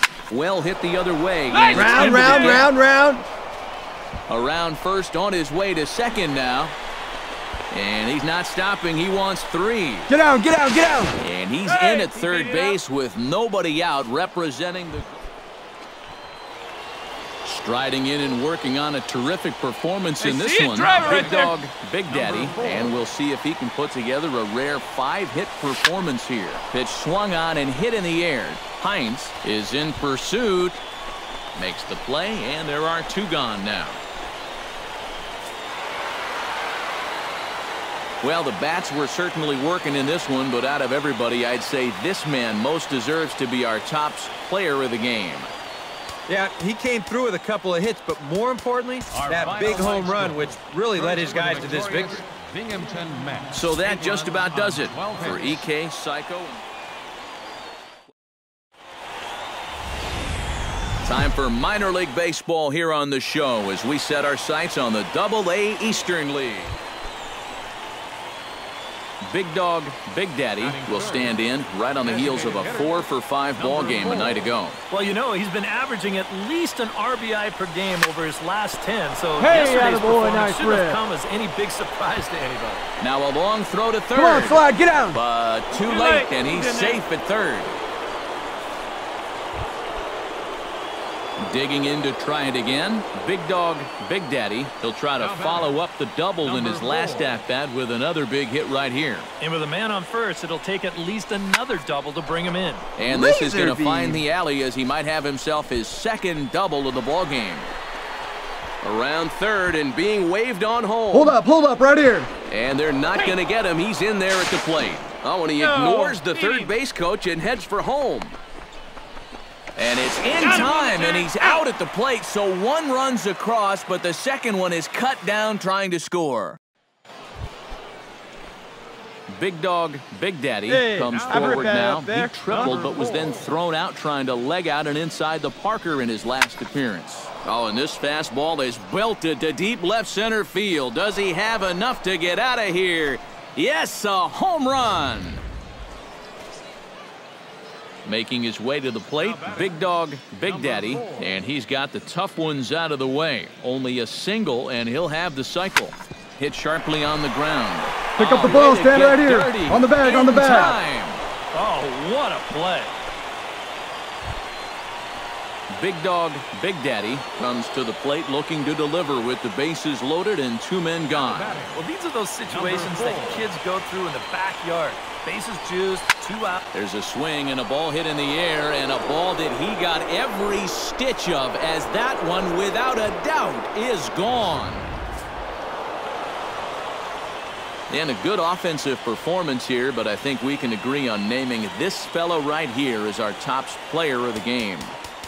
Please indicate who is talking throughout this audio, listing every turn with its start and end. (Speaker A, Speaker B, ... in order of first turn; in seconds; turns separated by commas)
Speaker A: 0.3-2.7, Speaker B: 1.5-2.5, Speaker C: 1.7-3.2, Speaker D: 1.8-2.6, Speaker A: 4.3-6.7, Speaker A: 7.7-10.1, Speaker C: 10.1-11.2, Speaker A: 11.2-15.2, Speaker B: 11.8-12.5, Speaker A: 17.4-30.8, Speaker B: 20.8-21.5, Speaker E: 20.8-21.5, Speaker D: 21.1-21.4, Speaker A: 31.5-34.0, Speaker A: 38.2-45.5, Speaker D: 46.3-52.2, Speaker E: 49.1-55.6, Speaker C: 51.4-51.8, Speaker A: 53.5-56.6, Speaker A: 61.0-66.8, Speaker A: 69.2-74.8, Speaker E: 70.6-71.4, Speaker E: 72.0-74.5, Speaker B: 74.9-82.8, Speaker C: 79.4-81.0, Speaker A: 83.0-87.8, Speaker C: 84.1-85.2, Speaker A: 91.4-99.3, Speaker E: 95.2-95.7, Speaker E: 96.5-97.4, Speaker B: 99.4-102.8, Speaker A: 103.0-107.7, Speaker C: 103.1-104.2, Speaker A: 108.8-111.4, Speaker C: 111.1-112.3, Speaker A: 112.5-118.3, Speaker B: 116.3-116.6, Speaker A: 119.8-126.6, Speaker A: 129.3-145.4, Speaker C: 130.7-133.2, Speaker B: 131.1-131.8, Speaker A: 148.0-161.2, Speaker E: 149.2-149.8, Speaker E: 150.4-151.3, Speaker C: 158.2-160.7, Speaker B: 161.5-162.9, Speaker A: 165.7-171.7, Speaker E: 171.1-171.7, Speaker B: 171.5-176.6, Speaker E: 172.5-173.4, Speaker A: 176.7-184.9, Speaker A: 187.9-194.9